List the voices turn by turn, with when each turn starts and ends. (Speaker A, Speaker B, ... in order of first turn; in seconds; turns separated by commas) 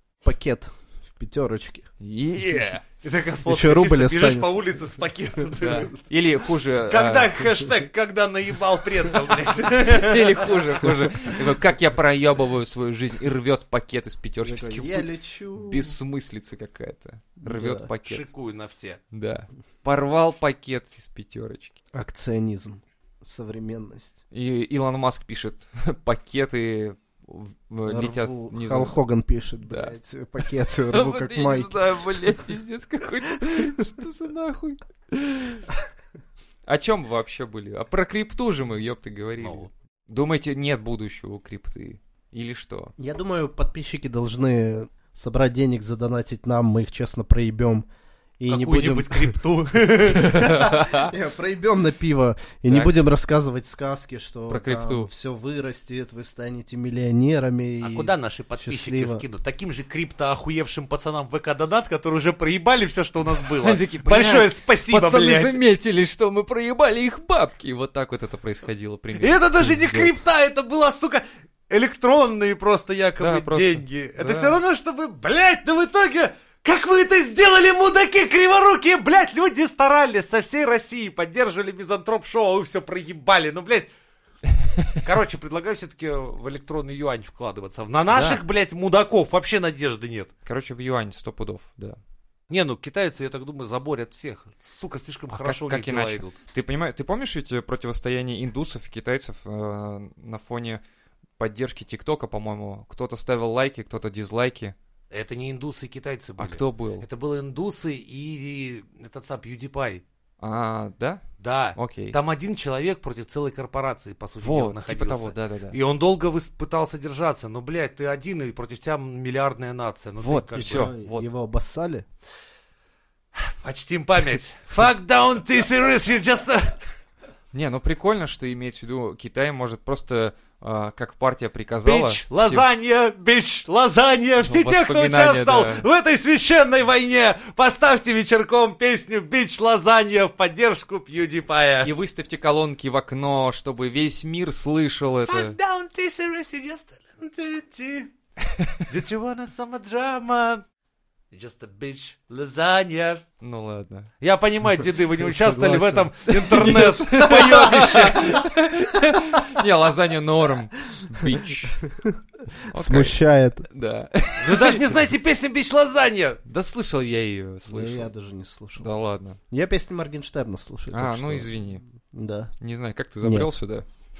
Speaker A: 0.2-1.9, Speaker B: 2.0-2.8, Speaker C: 3.0-6.0, Speaker A: 3.5-4.7, Speaker B: 5.6-7.4, Speaker C: 6.9-10.9, Speaker B: 9.7-18.2, Speaker A: 14.4-16.0, Speaker A: 17.4-17.9, Speaker C: 18.1-19.0, Speaker B: 19.1-21.8, Speaker A: 21.9-24.2, Speaker B: 24.3-28.9, Speaker A: 27.9-31.8, Speaker B: 29.6-29.9, Speaker B: 30.9-35.7, Speaker B: 36.7-42.9, Speaker C: 39.4-39.7, Speaker A: 43.0-47.9, Speaker A: 48.4-49.4, Speaker C: 48.5-50.5, Speaker B: 50.1-51.1, Speaker A: 50.2-59.2, Speaker B: 54.5-55.1, Speaker C: 57.8-65.6, Speaker B: 63.6-70.2, Speaker C: 69.2-83.9, Speaker B: 73.2-74.6, Speaker C: 85.0-90.3, Speaker B: 88.1-88.4, Speaker B: 90.5-92.0, Speaker C: 92.5-96.3, Speaker B: 95.3-100.8, Speaker B: 101.4-104.8, Speaker C: 105.1-110.0, Speaker B: 106.4-107.1, Speaker B: 110.4-111.2, Speaker C: 111.4-120.9, Speaker B: 111.8-112.2, Speaker B: 114.4-115.8, Speaker B: 120.2-121.3, Speaker A: 120.5-122.0, Speaker C: 123.4-126.8, Speaker B: 127.5-132.7, Speaker C: 131.8-141.9, Speaker B: 134.4-135.8, Speaker B: 141.8-145.6, Speaker C: 145.3-148.1, Speaker B: 148.5-148.8, Speaker C: 148.9-150.6, Speaker C: 151.3-153.2, Speaker B: 153.4-154.1, Speaker C: 154.2-158.5, Speaker A: 155.2-156.1, Speaker B: 156.3-161.8, Speaker A: 161.9-162.2, Speaker B: 162.7-164.9, Speaker A: 162.7-163.7, Speaker C: 164.4-166.4, Speaker B: 166.5-168.1, Speaker A: 167.7-168.9, Speaker B: 168.8-169.4, Speaker A: 169.5-172.5, Speaker B: 170.9-171.8, Speaker B: 172.6-173.9, Speaker A: 173.2-173.5